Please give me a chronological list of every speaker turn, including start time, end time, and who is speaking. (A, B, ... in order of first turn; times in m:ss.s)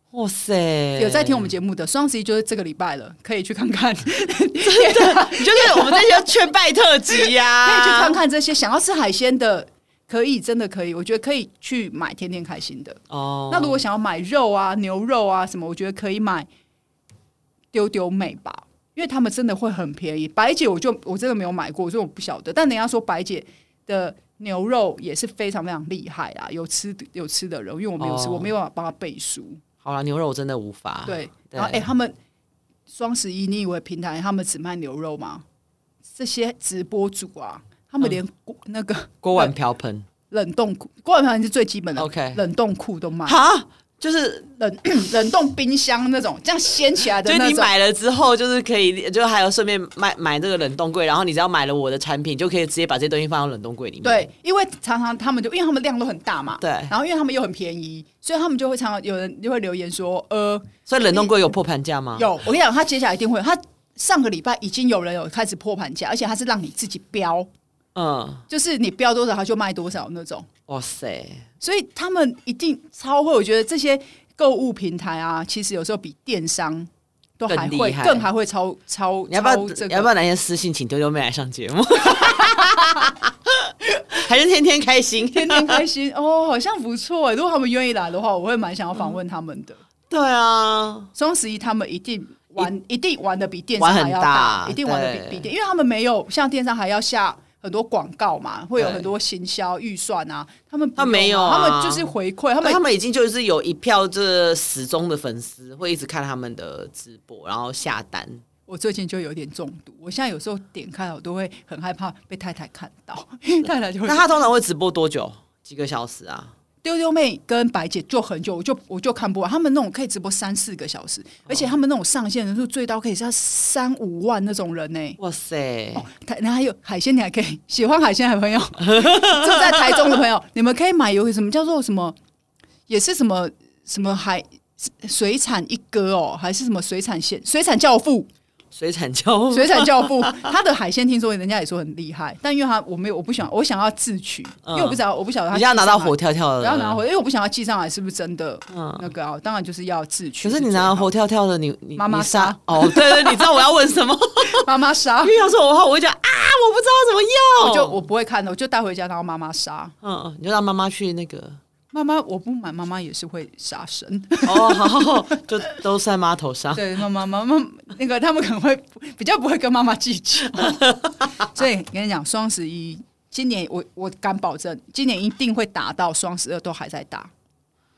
0:00.1-0:01.5 A
0:01.0-0:06.3 B
0:04.7-0:08.2 A
0:07.1-0:16.5 B
0:13.1-0:13.8 A
0:17.7-0:29.6 B
0:28.0-0:28.5 A
0:29.8-0:31.9 A
0:31.1-0:32.2 B
0:32.9-0:35.4 B
0:36.1-0:39.5 B
0:39.2-0:40.1 A
0:40.3-0:43.4 B
0:42.0-0:42.4 A
0:43.3-0:44.5 A
0:44.6-0:47.7 B
0:47.2-0:54.3 A
0:54.0-1:01.4 B
0:56.6-0:56.9 A
1:00.9-1:02.3 A
1:02.2-1:07.5 B
1:08.0-1:08.4 A
1:08.5-1:10.5 B
1:10.7-1:11.4 A
1:11.6-1:20.1 B
1:17.5-1:18.3 A
1:19.3-1:25.8 A
1:22.1-1:23.1 B
1:25.2-1:29.8 B
1:30.1-1:31.1 A
1:31.2-1:42.8 B
1:33.8-1:35.5 A
1:38.8-1:39.1 A
1:41.0-1:48.4 A
1:48.7-1:54.3 B
1:54.1-1:56.5 A
1:56.8-2:05.2 B
2:05.2-2:06.1 A
2:06.0-2:12.2 B
2:08.9-2:10.1 A
2:12.9-2:18.3 B
2:18.7-2:20.5 A
2:19.5-2:31.1 B
2:24.7-2:25.0 A
2:25.5-2:27.0 A
2:28.7-2:29.1 A
2:30.4-2:34.7 A
2:32.0-2:33.6 B
2:34.4-2:35.4 B
2:35.2-2:38.0 A
2:37.6-2:40.0 B
2:40.0-2:41.6 A
2:41.9-2:45.8 B
2:44.4-2:46.9 A
2:46.8-2:57.3 B